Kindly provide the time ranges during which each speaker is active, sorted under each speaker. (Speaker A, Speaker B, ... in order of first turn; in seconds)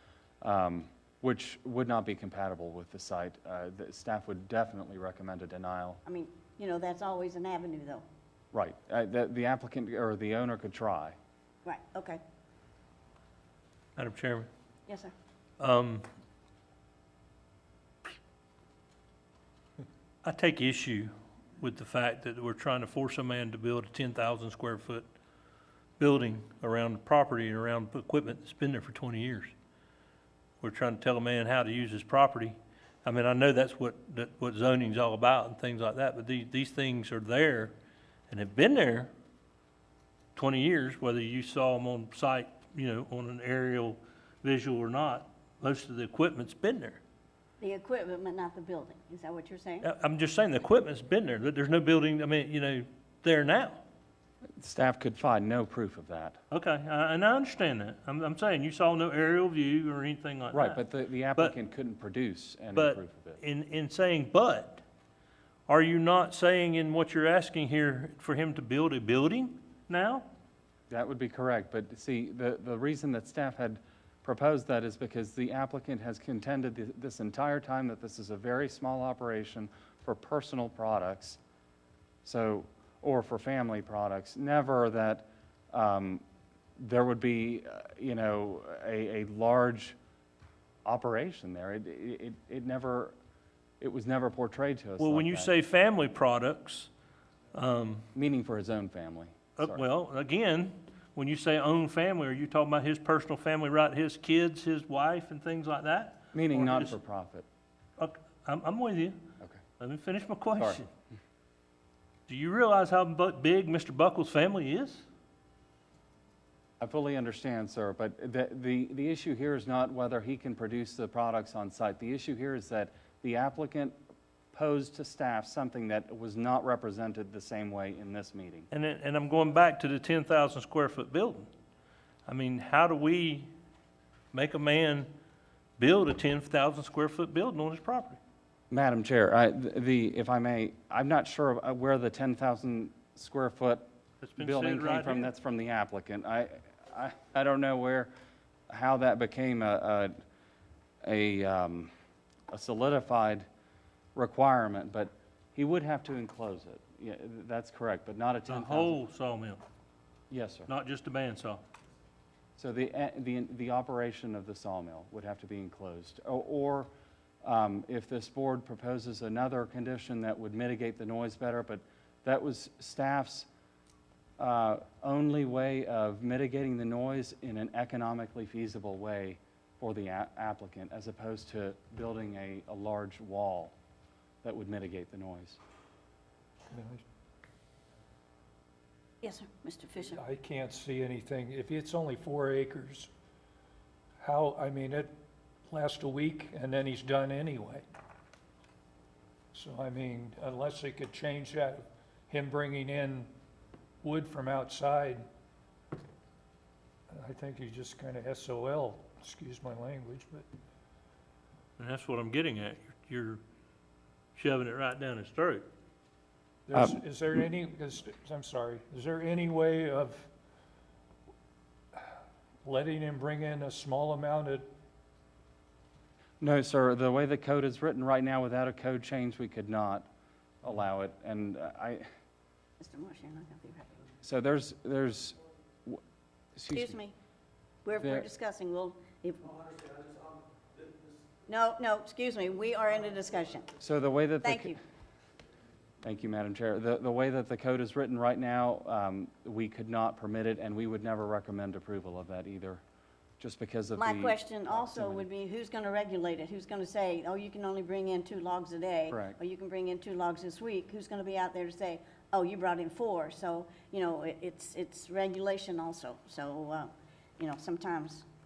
Speaker A: 0.4-6.0, 8.5-11.2, 54.6-56.4, 60.5-63.4, 70.9-81.4, 82.2-86.2, 86.8-90.0, 90.8-93.1, 93.8-95.5, 98.1-99.8, 106.3-107.4, 116.8-124.0, 124.5-128.7, 138.7-148.1, 148.7-150.2, 151.0-151.9, 152.5-153.4, 154.2-159.0, 160.3-160.7, 162.6-166.9, 167.4-173.5, 174.4-183.7, 184.4-185.6, 226.4-230.1, 230.6-232.1, 234.2-236.0, 236.6-236.9, 238.0-238.2, 243.8-244.8, 246.0-252.8, 253.4-255.3, 259.1-259.4
Speaker B: 6.0-8.0, 11.6-12.2, 14.9-15.1, 47.6-49.9, 189.2-190.2, 232.8-234.0, 236.7-237.1, 237.8-239.6, 241.5-243.7, 244.4-244.8, 254.0-268.2
Speaker C: 13.9-14.5, 15.6-16.1, 20.2-25.1, 26.0-29.5, 30.6-37.7, 38.3-39.1, 40.4-47.0, 49.8-53.8, 56.5-60.8, 62.7-64.8, 65.7-70.3, 95.0-96.9, 97.5-98.1, 99.6-106.9, 108.0-109.2, 109.8-110.9, 112.3-115.0, 128.7-131.5, 132.2-133.5, 134.3-135.1, 135.8-138.2, 144.2-145.3, 158.5-159.6, 160.7-161.6, 211.8-213.4, 214.3-215.7
Speaker D: 186.7-187.0, 190.1-193.1, 194.2-195.1, 195.7-197.8, 199.5-203.3, 204.0-205.2, 207.1-210.4, 216.7-220.3, 221.9-224.7